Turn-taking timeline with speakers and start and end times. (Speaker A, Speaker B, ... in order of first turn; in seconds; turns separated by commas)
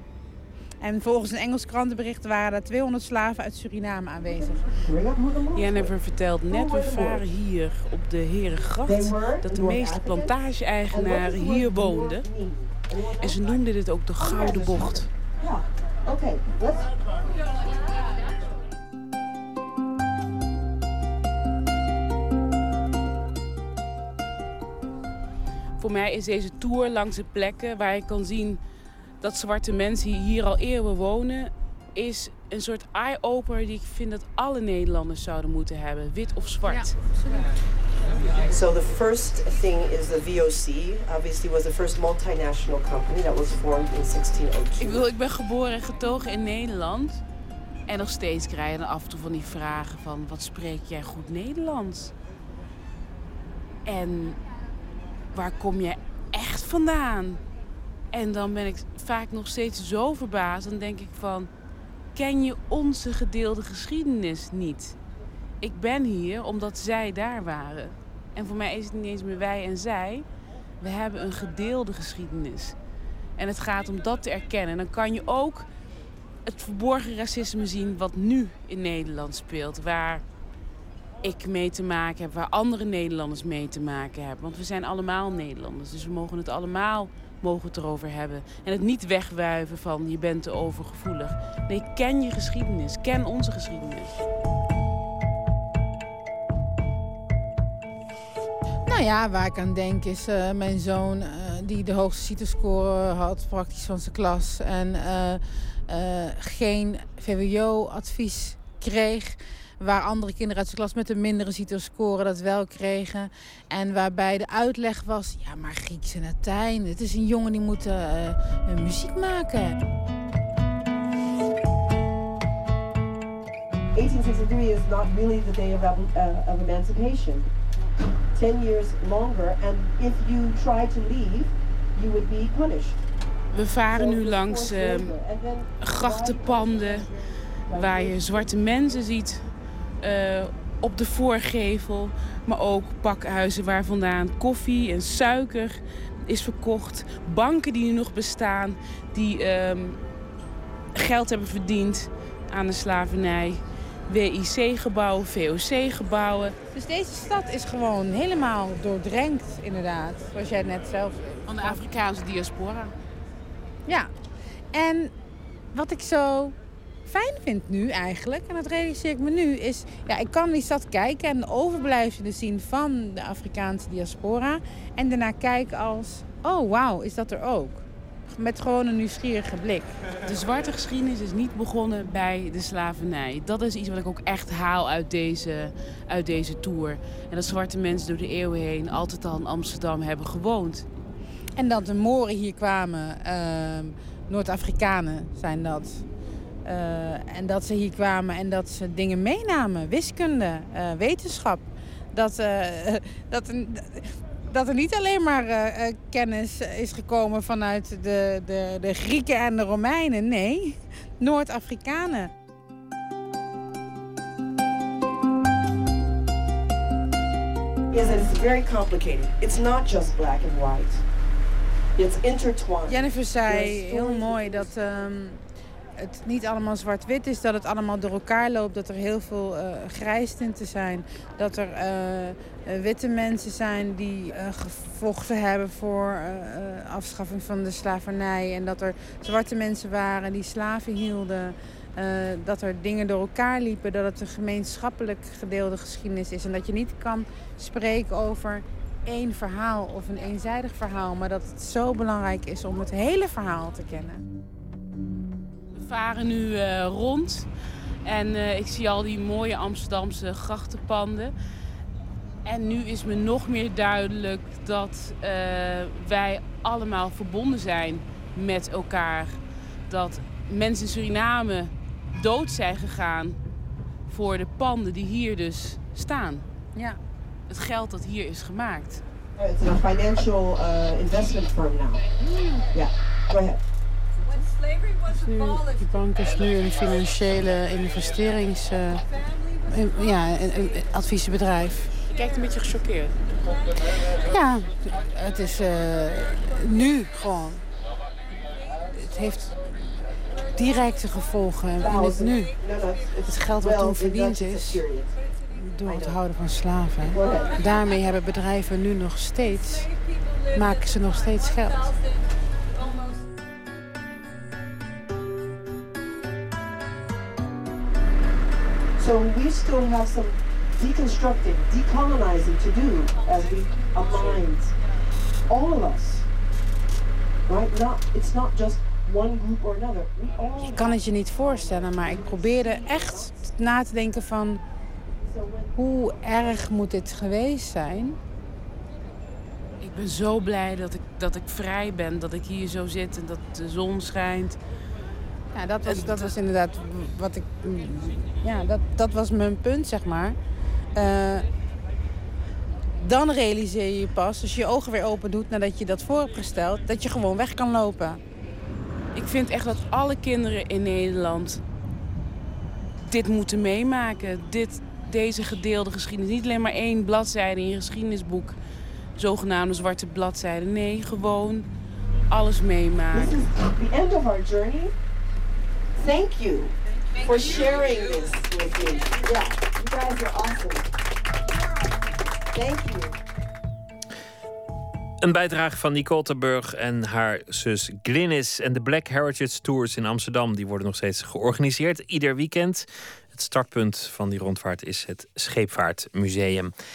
Speaker A: 0.8-4.6, Speaker B: 4.2-5.9, Speaker C: 5.6-12.2, Speaker B: 6.5-7.2, Speaker B: 8.8-10.4, Speaker B: 10.9-13.6, Speaker C: 13.2-15.1, Speaker B: 14.2-16.9, Speaker C: 25.8-28.6, Speaker C: 29.2-37.0, Speaker A: 36.7-37.4, Speaker B: 38.5-45.0, Speaker C: 44.8-47.2, Speaker C: 47.9-52.1, Speaker C: 53.9-54.4, Speaker C: 55.3-57.4, Speaker C: 58.1-61.5, Speaker C: 62.1-65.0, Speaker C: 65.6-70.2, Speaker C: 70.8-72.8, Speaker C: 73.4-75.7, Speaker C: 76.5-80.2, Speaker C: 81.2-94.2, Speaker A: 98.9-119.8, Speaker B: 123.9-127.5, Speaker B: 128.3-133.0, Speaker C: 133.5-135.1, Speaker B: 133.9-138.7, Speaker C: 135.8-137.1, Speaker C: 137.7-139.4, Speaker C: 140.0-150.0, Speaker C: 150.9-156.6, Speaker A: 156.7-161.8, Speaker C: 161.4-162.9, Speaker A: 163.9-164.1, Speaker A: 164.7-165.1, Speaker A: 165.7-166.6, Speaker A: 167.1-179.9, Speaker C: 180.2-190.9, Speaker A: 191.6-196.0, Speaker A: 196.7-212.3, Speaker B: 217.9-221.0, Speaker B: 222.0-224.7, Speaker A: 222.9-225.4, Speaker A: 226.0-254.2, Speaker C: 255.7-257.5, Speaker C: 258.1-261.3, Speaker C: 262.4-273.4, Speaker C: 274.1-276.5, Speaker C: 277.5-279.0, Speaker B: 279.4-282.1, Speaker B: 282.7-283.6, Speaker A: 285.2-289.0, Speaker A: 289.7-292.0, Speaker C: 292.1-293.2, Speaker A: 294.2-297.6, Speaker A: 298.9-299.6, Speaker A: 300.5-302.5, Speaker B: 301.8-305.1, Speaker A: 303.3-304.8, Speaker A: 305.6-309.9, Speaker B: 305.9-306.2, Speaker B: 307.0-307.6, Speaker A: 310.5-311.9, Speaker B: 319.0-324.7, Speaker B: 325.5-326.3, Speaker B: 327.5-333.5, Speaker A: 330.6-334.6, Speaker B: 335.2-335.7, Speaker A: 335.8-338.2, Speaker C: 339.8-344.6, Speaker A: 345.5-350.4, Speaker C: 345.8-346.4, Speaker A: 350.9-351.5, Speaker A: 353.0-358.2, Speaker C: 359.1-361.6, Speaker C: 363.1-368.6, Speaker C: 369.2-371.7, Speaker C: 372.3-373.4, Speaker B: 373.1-374.9, Speaker B: 376.0-380.9, Speaker B: 382.5-383.2, Speaker D: 385.2-396.7